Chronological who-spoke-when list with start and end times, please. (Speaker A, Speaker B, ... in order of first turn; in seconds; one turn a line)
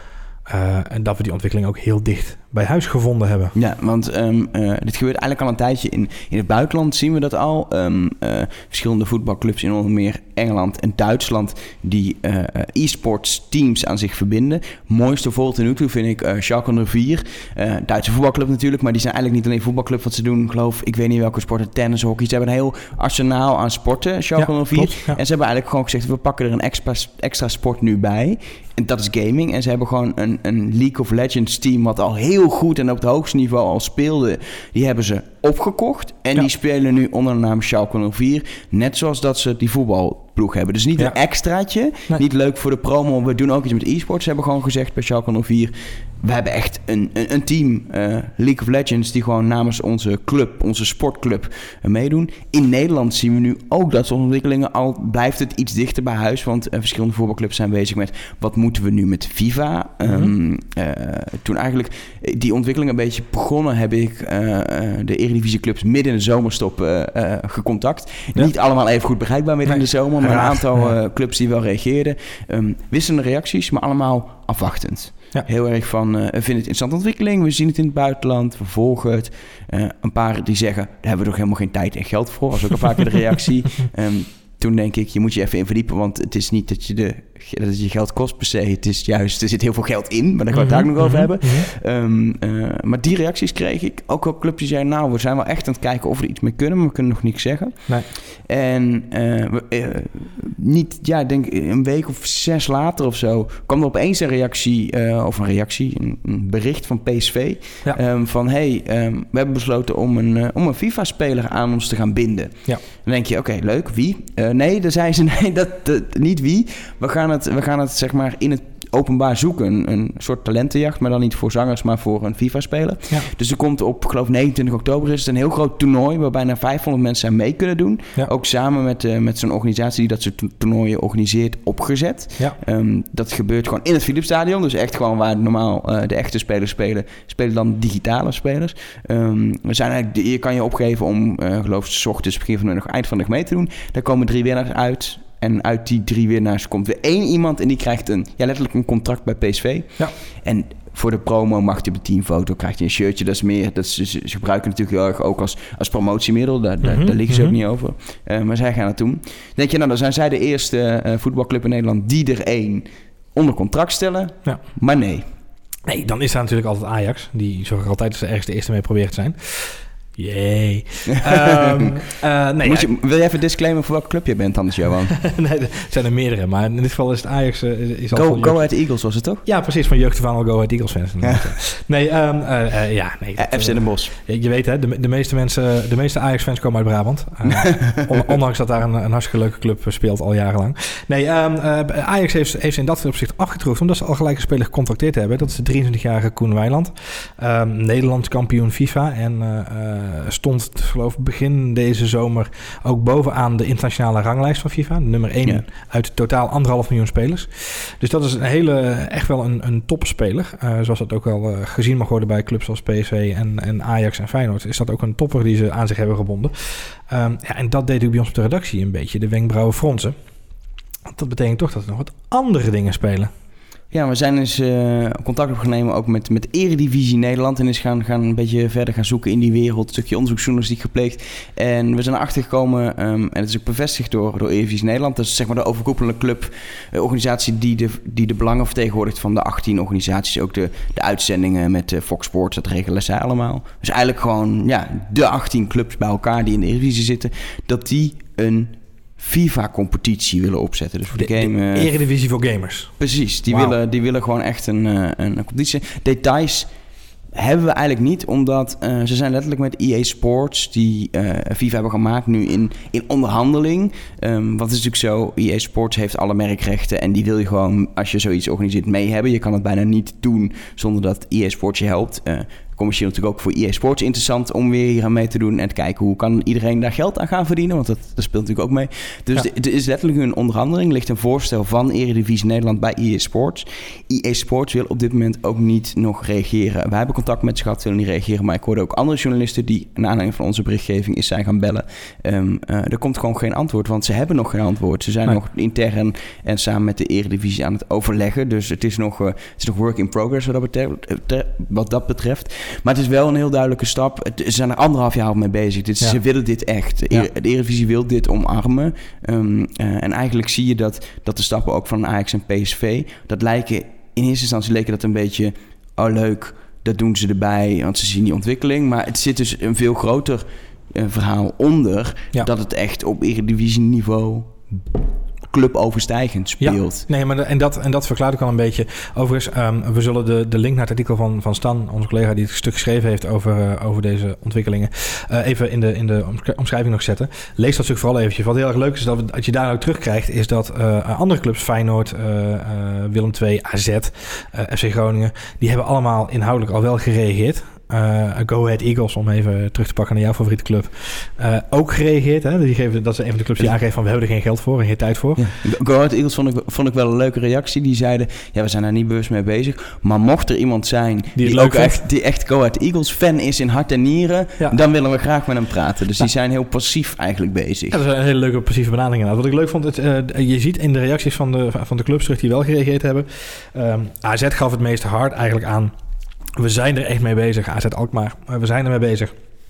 Speaker A: 0.5-3.5
Speaker B: 3.5-165.2
Speaker A: 24.4-25.2
Speaker A: 60.0-60.3
Speaker A: 69.6-70.9
Speaker A: 90.5-91.7
Speaker A: 156.8-157.6
Speaker A: 165.8-172.9
Speaker B: 171.1-171.9
Speaker B: 172.6-175.2
Speaker A: 175.2-178.6
Speaker B: 178.1-179.4
Speaker A: 179.4-220.1
Speaker B: 183.4-184.1
Speaker B: 187.4-188.3
Speaker A: 221.1-223.3
Speaker B: 223.9-251.9
Speaker A: 251.1-253.8
Speaker B: 253.0-256.7
Speaker B: 257.3-324.8
Speaker B: 325.5-327.0
Speaker A: 326.6-355.5
Speaker B: 355.4-368.0
Speaker A: 361.4-362.0
Speaker A: 367.9-375.9
Speaker A: 376.6-379.3